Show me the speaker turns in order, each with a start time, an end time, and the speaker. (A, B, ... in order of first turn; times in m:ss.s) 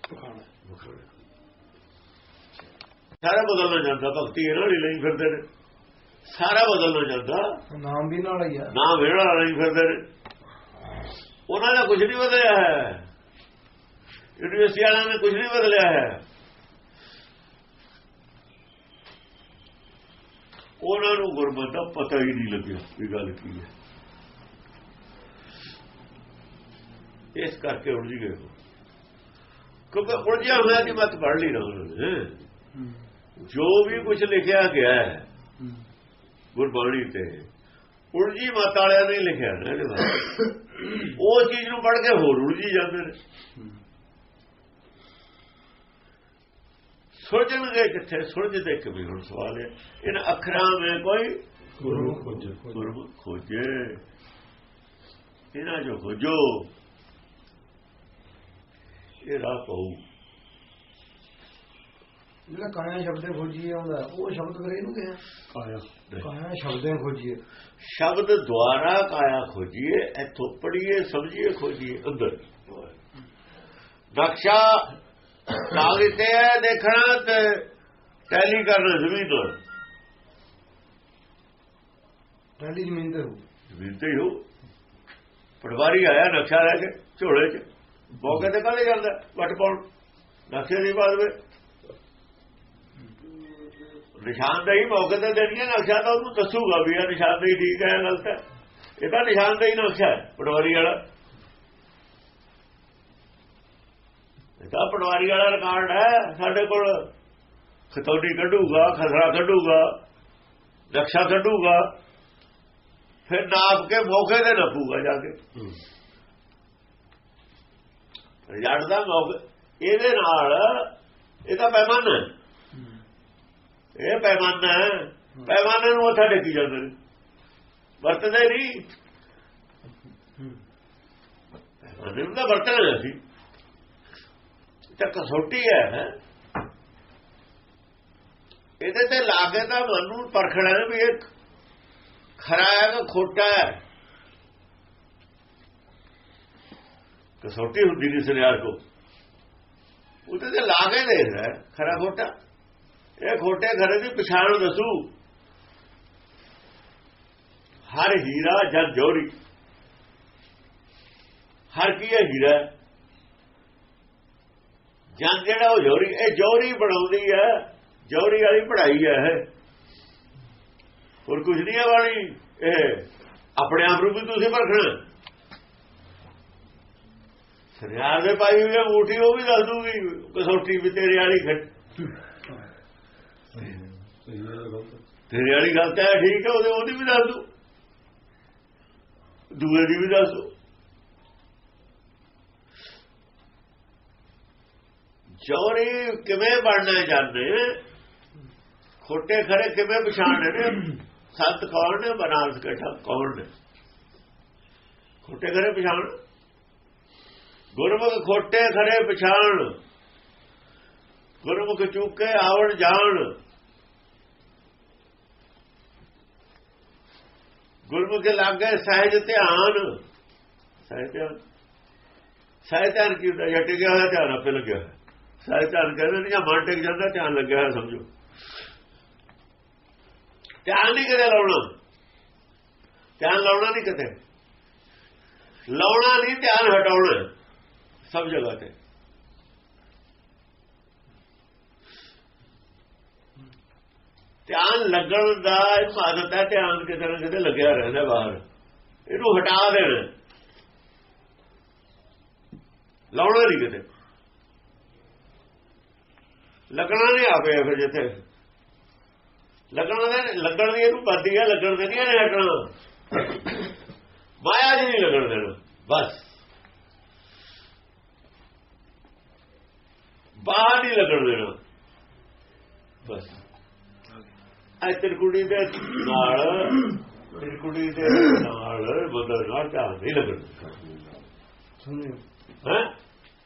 0:00.1-0:00.5 A
0:00.6-0:01.1 B
0:03.2-0:05.4 B
0:06.3-0:07.6 B
0:07.7-0:08.7 A
0:08.7-0:10.0 B
0:11.5-0:13.0 B
0:14.4-0:16.2 B
0:20.8-0:23.7 B
0:27.4-0:28.5 B
0:29.9-0:32.4 B
0:33.4-0:35.3 B
0:36.6-0:37.5 B
0:38.1-0:43.2 B
0:47.2-0:51.4 B
0:51.8-0:52.8 C
0:51.8-0:52.5 A
0:52.7-0:54.0 B
0:55.5-0:56.7 B
0:59.2-1:00.0 B
1:02.5-1:05.2 A
1:05.5-1:05.9 C
1:06.2-1:07.4 A
1:07.8-1:12.9 B
1:14.1-1:14.9 B
1:15.5-1:17.7 B
1:18.3-1:19.6 B
1:22.6-1:23.4 A
1:23.7-1:24.4 B
1:25.6-1:29.8 B
1:30.5-1:31.4 B
1:34.2-1:38.4 B
1:39.0-1:41.0 B
1:44.6-1:47.1 B
1:47.9-1:50.0 B
1:50.9-1:51.9 B
1:53.3-1:55.4 B
1:58.5-2:00.9 B
2:01.4-2:02.3 B
2:04.0-2:07.0 B
2:08.0-2:08.8 B
2:11.8-2:13.2 B
2:15.0-2:16.1 B
2:18.8-2:21.2 B
2:22.4-2:23.8 B
2:27.4-2:28.8 B
2:30.3-2:32.3 B
2:33.2-2:35.1 B
2:37.9-2:39.3 B
2:41.7-2:42.7 B
2:45.2-2:49.5 B
2:51.3-2:55.0 B
2:57.8-3:01.7 B
3:03.5-3:05.0 C
3:05.3-3:07.4 B
3:09.5-3:10.5 B
3:15.4-3:17.8 B
3:19.0-3:23.5 B
3:25.2-3:26.2 B
3:27.7-3:29.8 B
3:31.4-3:33.3 B
3:37.9-3:40.0 B
3:40.8-3:41.4 B
3:42.6-3:48.1 B
3:50.6-3:51.7 B
3:53.2-3:54.2 B
3:55.7-3:57.3 B
3:58.1-3:58.7 B
4:04.5-4:08.4 B
4:09.1-4:10.1 B
4:13.1-4:13.8 B
4:16.7-4:18.2 B
4:19.7-4:23.6 B
4:24.4-4:26.2 B
4:30.4-4:31.6 B
4:33.0-4:33.4 B
4:34.8-4:40.7 B
4:41.8-4:42.2 A
4:42.6-4:42.9 B